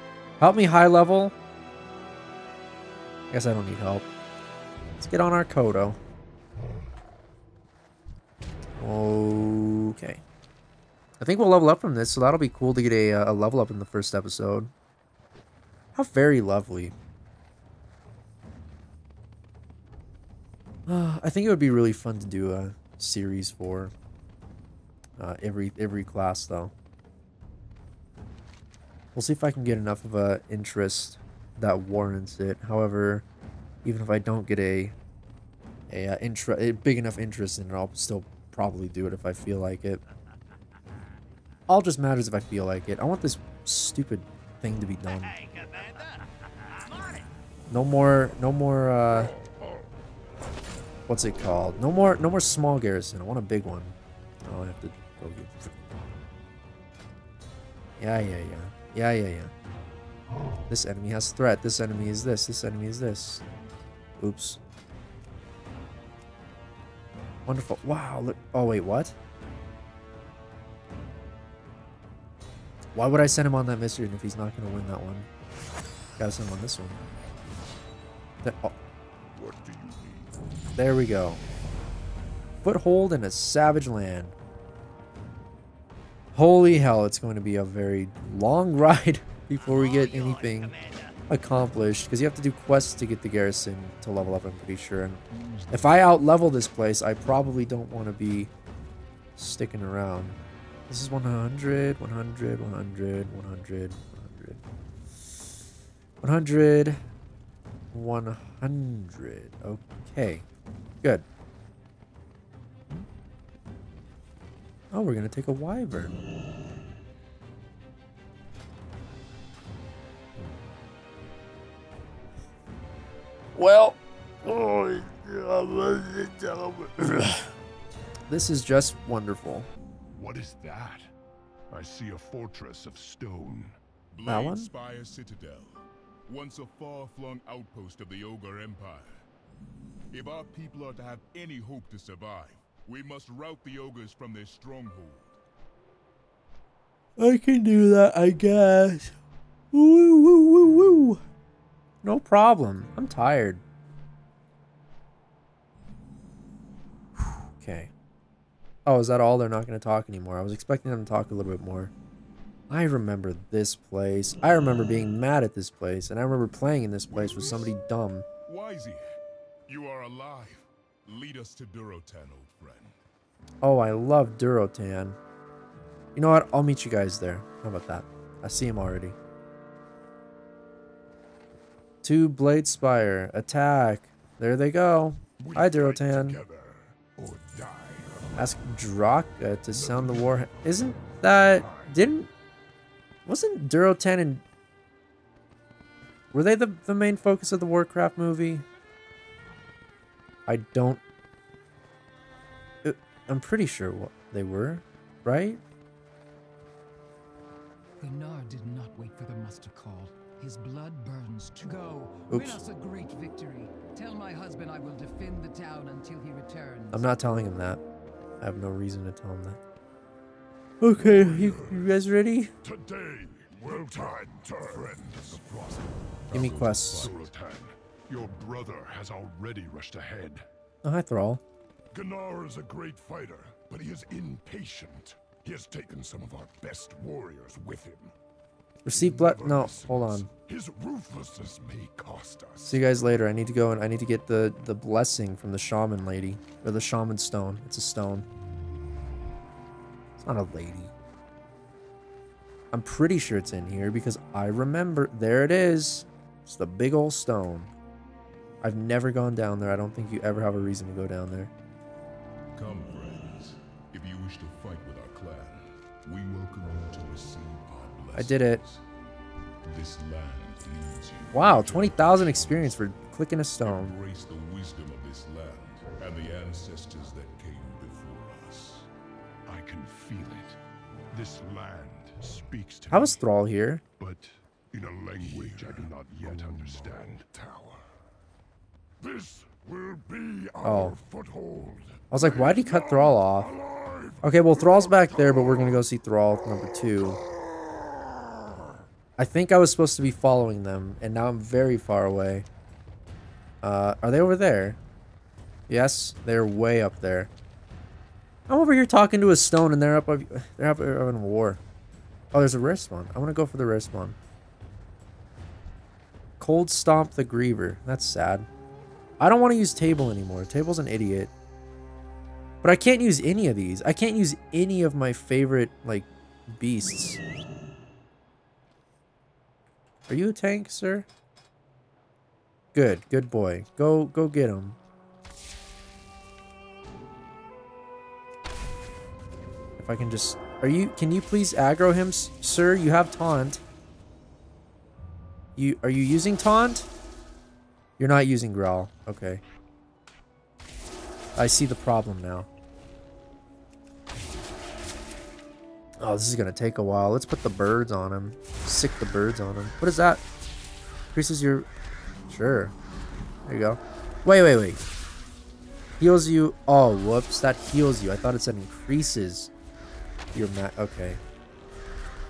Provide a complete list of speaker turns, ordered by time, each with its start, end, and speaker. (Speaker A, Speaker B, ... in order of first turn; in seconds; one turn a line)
Speaker A: 0.4-1.4
Speaker A: 3.3-4.1
Speaker A: 5.0-6.0
Speaker A: 8.8-10.2
Speaker A: 11.2-14.7
Speaker A: 15.9-16.9
Speaker A: 20.9-23.9
Speaker A: 25.2-26.7
Speaker A: 29.1-33.3
Speaker A: 33.8-35.0
Speaker A: 35.9-40.0
Speaker A: 41.7-45.4
Speaker A: 47.7-49.3
Speaker A: 51.1-55.8
Speaker A: 58.0-59.5
Speaker A: 60.7-63.4
Speaker A: 64.2-64.6
Speaker A: 67.5-69.2
Speaker A: 73.0-75.3
Speaker A: 76.2-77.0
Speaker A: 78.4-78.8
Speaker B: 79.3-80.3
Speaker A: 80.8-81.4
Speaker A: 82.6-84.3
Speaker A: 86.3-90.8
Speaker A: 91.3-95.2
Speaker A: 95.7-98.5
Speaker A: 99.4-100.4
Speaker A: 100.9-104.6
Speaker A: 106.2-107.0
Speaker A: 107.9-110.5
Speaker A: 114.9-116.1
Speaker A: 123.5-127.5
Speaker A: 128.3-129.7
Speaker B: 130.2-131.1
Speaker B: 131.7-133.8
Speaker C: 134.1-139.2
Speaker A: 134.3-134.7
Speaker C: 140.1-145.4
Speaker A: 147.2-149.2
Speaker A: 149.7-151.2
Speaker A: 152.0-153.6
Speaker A: 157.5-157.9
Speaker A: 158.9-161.9
Speaker A: 162.7-168.3
Speaker C: 167.1-167.7
Speaker C: 168.5-173.0
Speaker A: 173.6-175.2
Speaker A: 176.2-179.2
Speaker A: 182.0-186.4
Speaker B: 185.4-188.5
Speaker A: 188.4-192.3
Speaker B: 189.8-190.2
Speaker B: 191.4-191.9
Speaker A: 193.3-194.4
Speaker A: 196.3-198.7
Speaker A: 200.5-201.0
Speaker A: 202.8-205.6
Speaker D: 208.0-217.1
Speaker A: 212.3-212.6
Speaker A: 216.9-217.8
Speaker A: 218.4-219.6
Speaker A: 220.8-222.5
Speaker B: 221.0-221.9
Speaker B: 222.6-225.9
Speaker C: 226.3-227.3
Speaker A: 226.3-227.1
Speaker B: 227.0-230.4
Speaker A: 230.8-231.4
Speaker B: 231.9-238.1
Speaker A: 238.8-240.3
Speaker B: 238.9-242.8
Speaker A: 242.6-248.3
Speaker A: 250.2-250.9
Speaker A: 252.7-257.7
Speaker A: 258.6-261.5
Speaker C: 262.5-268.8
Speaker A: 268.1-268.6
Speaker C: 269.7-272.8
Speaker A: 271.3-274.0
Speaker C: 273.6-278.9
Speaker B: 279.5-280.6
Speaker B: 281.1-283.2
Speaker A: 282.9-283.8
Speaker B: 284.0-287.8
Speaker C: 285.2-287.2
Speaker B: 289.0-295.6
Speaker A: 290.6-291.0
Speaker A: 292.1-293.6
Speaker A: 294.2-297.2
Speaker A: 299.2-302.5
Speaker A: 303.6-304.8
Speaker A: 305.7-307.3
Speaker A: 308.5-311.6
Speaker A: 312.3-314.2
Speaker A: 316.4-318.5
Speaker A: 319.2-321.3
Speaker A: 322.6-327.2
Speaker A: 330.1-331.1
Speaker A: 332.8-334.8
Speaker A: 339.8-343.6
Speaker A: 345.6-346.9
Speaker A: 348.0-349.4
Speaker A: 351.4-352.5
Speaker A: 356.0-360.2
Speaker A: 361.1-361.7
Speaker A: 362.3-362.7
Speaker A: 363.5-364.8
Speaker A: 366.0-369.5
Speaker A: 370.3-371.2